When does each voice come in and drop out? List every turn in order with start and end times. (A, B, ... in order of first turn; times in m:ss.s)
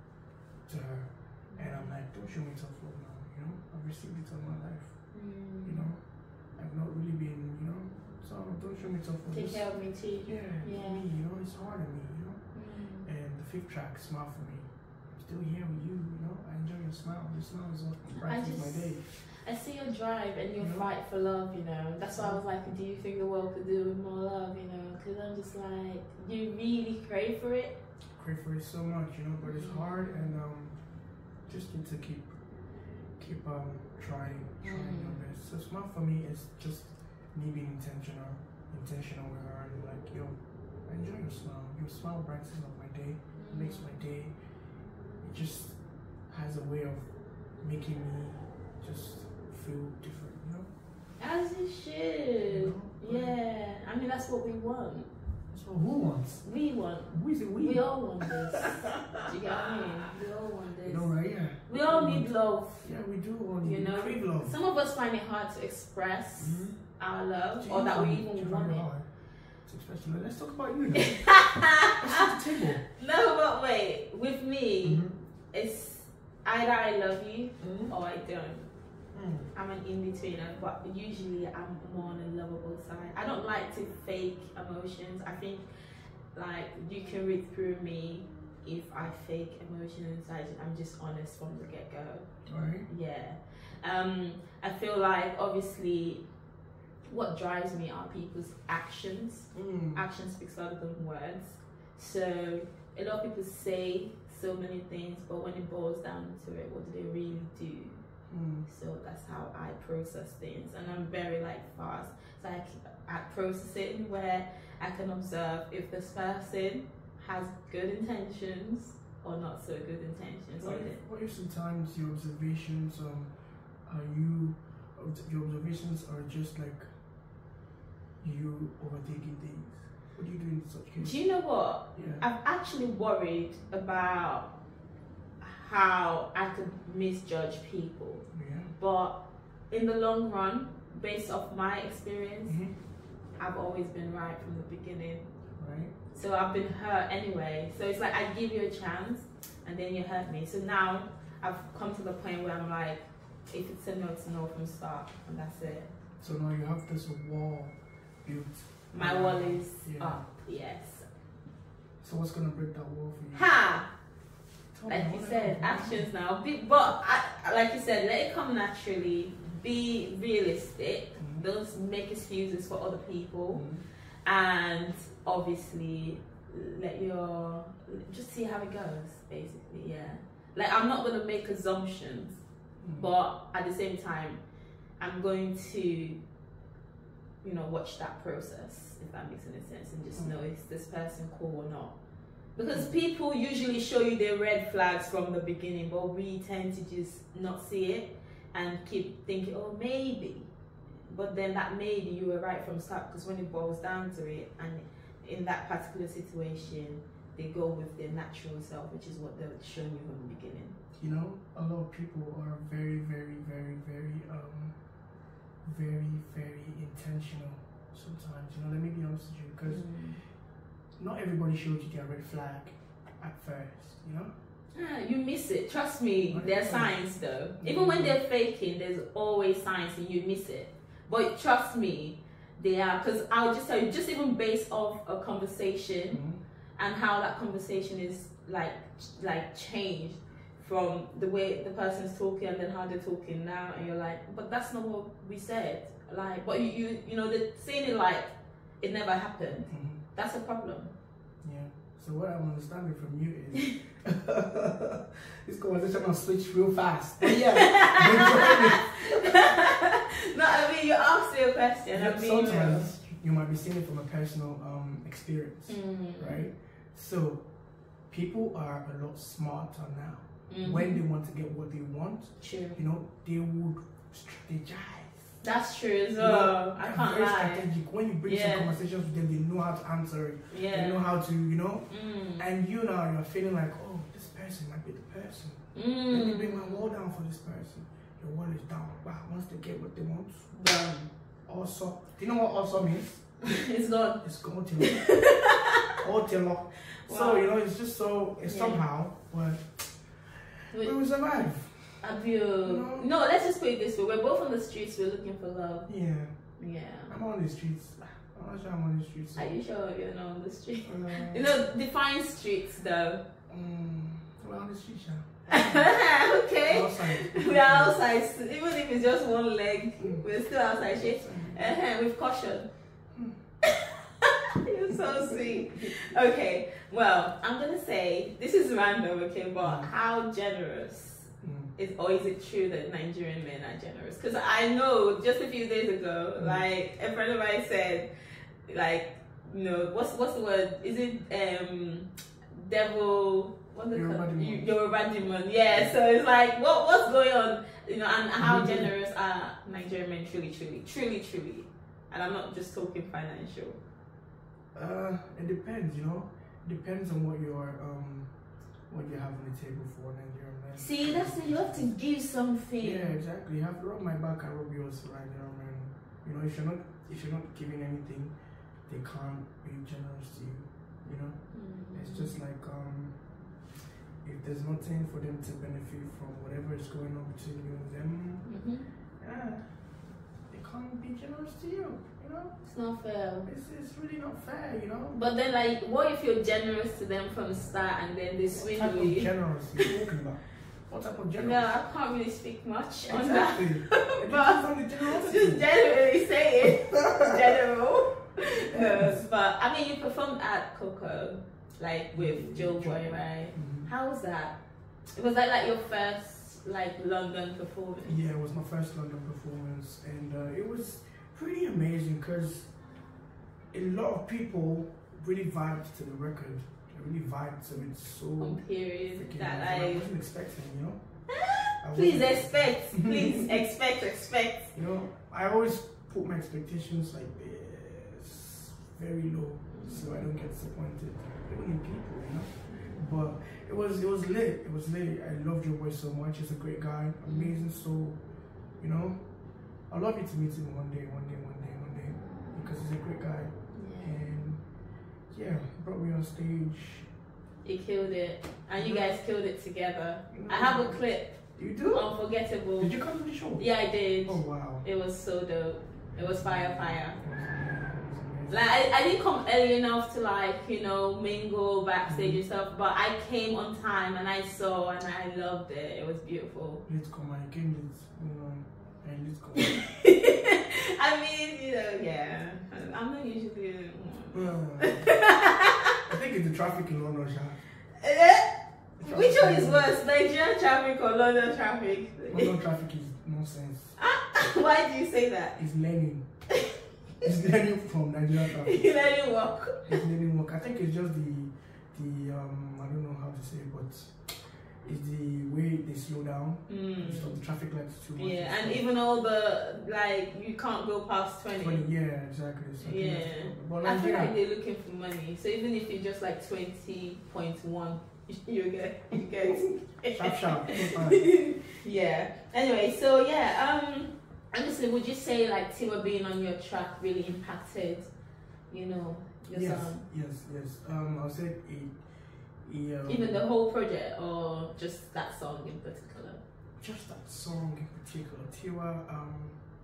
0:00.7-0:09.7 A
0:01.5-0:01.9 B
0:05.1-0:05.9 B
0:09.3-0:11.0 B
0:10.2-0:19.1 A
0:12.5-0:13.1 B
0:18.2-0:27.8 B
0:20.6-0:20.9 A
0:22.1-0:22.4 A
0:28.2-0:30.8 A
0:29.4-0:30.3 B
0:31.5-0:32.3 A
0:33.2-0:44.3 A
0:34.6-0:35.2 B
0:43.4-0:43.9 B
0:45.2-0:45.8 A
0:46.3-0:47.1 A
0:47.6-0:50.7 A
0:51.2-0:55.1 B
0:52.5-0:53.4 A
0:55.5-0:56.5 A
0:56.4-1:02.9 B
0:57.1-1:00.1 A
1:00.8-1:04.5 A
1:03.6-1:08.8 B
1:06.4-1:06.8 A
1:07.6-1:09.1 A
1:09.6-1:11.4 A
1:11.0-1:18.7 B
1:12.0-1:12.8 A
1:14.8-1:15.1 A
1:17.6-1:17.9 A
1:19.1-1:19.5 A
1:19.5-1:25.7 B
1:26.3-1:36.2 B
1:32.5-1:32.9 A
1:37.1-1:48.0 B
1:39.5-1:40.1 A
1:48.3-1:48.7 A
1:48.7-2:01.0 B
2:00.6-2:03.3 A
2:03.8-2:06.9 A
2:08.2-2:11.2 A
2:11.0-2:14.5 B
2:12.0-2:12.2 A
2:15.4-2:19.2 B
2:18.3-2:18.8 A
2:19.7-2:22.6 B
2:22.5-2:22.7 A
2:23.4-2:25.3 B
2:25.6-2:25.9 A
2:26.1-2:35.9 B
2:36.2-2:40.2 A
2:38.9-2:41.1 B
2:42.0-2:43.5 A
2:43.4-2:43.9 B
2:44.7-2:46.1 A
2:44.9-2:53.7 B
2:51.2-2:51.5 A
2:53.5-2:53.8 A
2:54.2-3:02.4 B
3:02.8-3:03.1 A
3:02.9-3:04.4 B
3:05.0-3:06.2 B
3:07.4-3:12.0 B
3:10.2-3:10.4 A
3:12.6-3:20.5 B
3:21.1-3:30.8 B
3:31.0-3:34.8 A
3:35.6-3:39.8 A
3:39.7-3:40.2 B
3:41.0-3:44.3 A
3:44.7-3:56.2 B
3:46.3-3:47.0 A
3:47.6-3:48.2 A
3:56.1-3:56.4 A
3:56.8-4:10.9 B
4:09.7-4:10.0 A
4:11.4-4:19.6 A
4:17.2-4:22.9 B
4:21.9-4:27.4 A
4:25.7-4:26.5 B
4:28.1-4:35.4 A
4:30.5-4:31.0 B
4:32.4-4:32.8 B
4:35.4-4:37.7 B
4:36.2-4:50.8 A
4:38.2-4:38.7 B
4:40.5-4:41.0 B
4:41.9-4:42.4 B
4:45.8-4:46.8 B
4:50.5-4:51.1 B
4:51.5-4:53.6 A
4:53.4-4:54.2 B
4:54.2-4:55.1 A
4:54.8-4:56.0 B
4:56.0-5:02.1 A
4:56.9-4:57.5 B
4:58.5-4:58.8 B
5:00.7-5:01.0 B
5:02.0-5:05.9 B
5:02.6-5:03.1 A
5:05.9-5:06.3 A
5:06.6-5:07.2 B
5:07.1-5:09.6 A
5:09.4-5:13.2 B
5:10.8-5:11.6 A
5:13.5-5:16.0 A
5:15.5-5:22.7 B
5:16.7-5:18.0 A
5:20.0-5:20.3 A
5:21.0-5:21.8 A
5:23.1-5:23.4 A
5:23.6-5:38.1 B
5:24.9-5:26.0 A
5:29.6-5:29.9 A
5:31.4-5:31.7 A
5:36.4-5:36.6 A
5:38.7-5:53.8 B
5:43.9-5:44.7 A
5:45.7-5:46.0 A
5:48.4-5:48.9 A
5:54.7-5:58.3 A
5:58.9-6:01.9 A
6:00.8-6:03.1 B
6:02.8-6:08.3 A
6:08.9-6:13.2 A
6:11.5-6:12.4 B
6:14.2-6:18.5 A
6:18.5-6:18.9 B
6:19.2-6:19.8 A
6:20.5-6:22.6 A
6:22.6-6:23.5 B
6:23.4-6:25.2 A
6:25.1-6:29.9 B
6:28.5-6:31.7 A
6:31.4-6:44.6 B
6:33.1-6:35.7 A
6:36.6-6:37.6 A
6:38.6-6:39.2 A
6:42.1-6:43.9 A
6:45.2-6:48.2 B
6:48.0-6:52.7 A
6:53.7-7:01.3 A
6:58.4-7:00.1 B
7:01.4-7:04.8 B
7:01.8-7:03.6 A
7:04.7-7:18.2 A
7:09.7-7:10.3 B
7:17.2-7:17.5 B
7:18.8-7:19.2 A
7:19.9-7:24.6 A
7:23.7-7:24.2 B
7:25.3-7:27.1 A
7:27.6-7:31.4 B
7:28.8-7:29.2 A
7:30.3-7:31.0 A
7:31.6-7:32.1 A
7:31.9-7:33.0 B
7:32.8-7:33.7 A
7:33.6-7:37.2 B
7:34.2-7:34.8 A
7:36.2-7:38.6 A
7:38.5-7:46.8 B
7:42.1-7:42.4 A
7:46.9-7:49.8 A
7:49.6-7:56.0 B
7:54.3-7:55.2 A
7:56.1-7:57.6 A
7:58.0-8:02.6 B
7:59.0-8:00.0 A
8:02.3-8:04.0 A
8:04.0-8:05.6 B
8:05.6-8:06.2 A
8:07.2-8:08.9 A
8:08.6-8:10.0 B
8:09.9-8:14.3 A
8:14.8-8:18.8 A
8:16.7-8:17.4 B
8:18.2-8:21.9 B
8:21.6-8:24.4 A
8:22.8-8:38.1 B
8:29.4-8:31.3 A
8:38.7-8:40.1 B
8:39.5-8:42.0 A
8:42.6-8:43.4 A
8:43.1-8:46.4 B
8:46.8-8:49.6 A